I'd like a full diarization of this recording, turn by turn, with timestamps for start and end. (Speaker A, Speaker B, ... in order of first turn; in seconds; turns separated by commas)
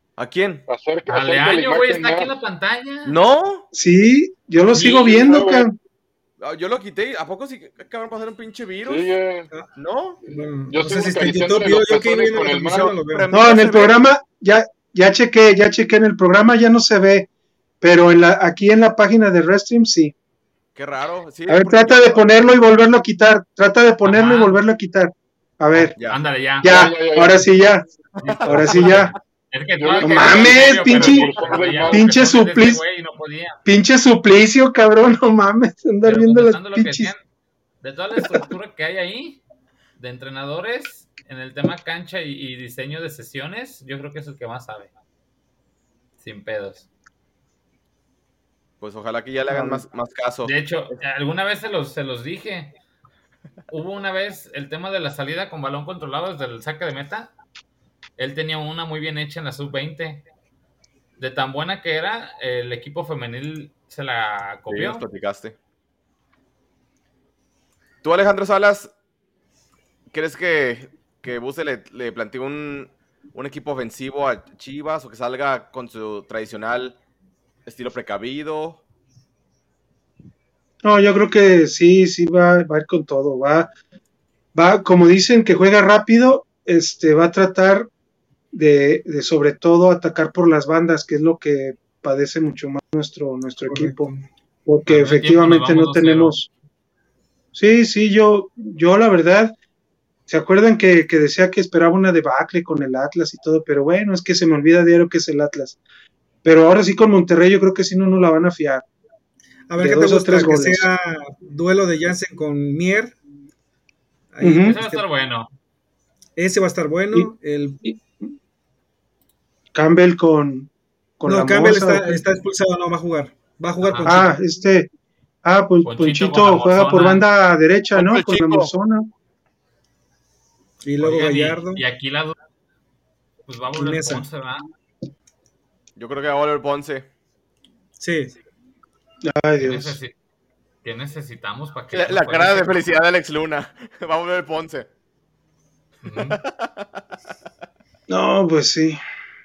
Speaker A: 0.2-0.6, Speaker B: 0.7-2.4, Speaker C: 1.1-3.2, Speaker A: 3.0-3.6, Speaker D: 3.7-5.8, Speaker B: 4.7-5.7, Speaker C: 4.8-5.1, Speaker A: 6.4-9.1, Speaker B: 8.8-9.5, Speaker A: 9.8-10.2, Speaker B: 10.3-12.9, Speaker E: 10.3-13.3, Speaker A: 13.1-14.0, Speaker D: 13.3-17.3, Speaker D: 17.8-20.1, Speaker A: 20.7-22.5, Speaker D: 21.5-25.9, Speaker C: 24.1-24.6, Speaker C: 25.7-26.8, Speaker A: 25.9-26.2, Speaker D: 26.6-27.9, Speaker B: 26.6-27.4, Speaker A: 28.2-29.1, Speaker C: 28.2-33.6, Speaker D: 28.4-29.1, Speaker B: 29.8-32.1, Speaker D: 30.0-31.3, Speaker D: 31.9-32.8, Speaker D: 33.6-37.1, Speaker C: 36.0-37.2, Speaker C: 37.8-39.4, Speaker D: 38.2-38.4, Speaker C: 40.0-44.9, Speaker C: 46.2-46.9, Speaker A: 48.8-51.0, Speaker D: 49.5-49.8, Speaker C: 50.4-52.7, Speaker C: 53.7-57.3, Speaker C: 58.2-60.2, Speaker C: 61.2-65.0, Speaker A: 64.7-65.5, Speaker A: 68.0-68.9, Speaker A: 70.1-77.0, Speaker A: 77.7-78.8, Speaker D: 80.8-83.7, Speaker D: 84.5-87.9, Speaker D: 88.5-94.1, Speaker E: 93.7-94.2, Speaker D: 94.7-96.5, Speaker C: 94.9-96.3, Speaker D: 97.5-99.5, Speaker D: 100.3-105.8, Speaker D: 106.4-108.8, Speaker E: 109.7-113.2, Speaker D: 109.8-110.9, Speaker E: 114.3-115.0, Speaker D: 114.4-114.8, Speaker C: 114.6-115.5, Speaker E: 116.3-117.8, Speaker D: 119.7-122.2, Speaker E: 121.3-124.4, Speaker C: 123.8-124.1, Speaker D: 124.0-124.9, Speaker D: 125.4-129.1, Speaker C: 125.8-127.3, Speaker A: 127.9-128.7, Speaker E: 130.8-131.8, Speaker C: 131.0-132.3, Speaker C: 133.5-134.7, Speaker E: 133.8-134.2, Speaker A: 135.9-137.1, Speaker E: 138.0-138.3, Speaker D: 139.2-140.0, Speaker C: 139.6-140.1, Speaker C: 140.8-142.8, Speaker A: 141.9-144.9, Speaker C: 146.0-146.4, Speaker A: 146.2-147.1, Speaker D: 148.1-149.0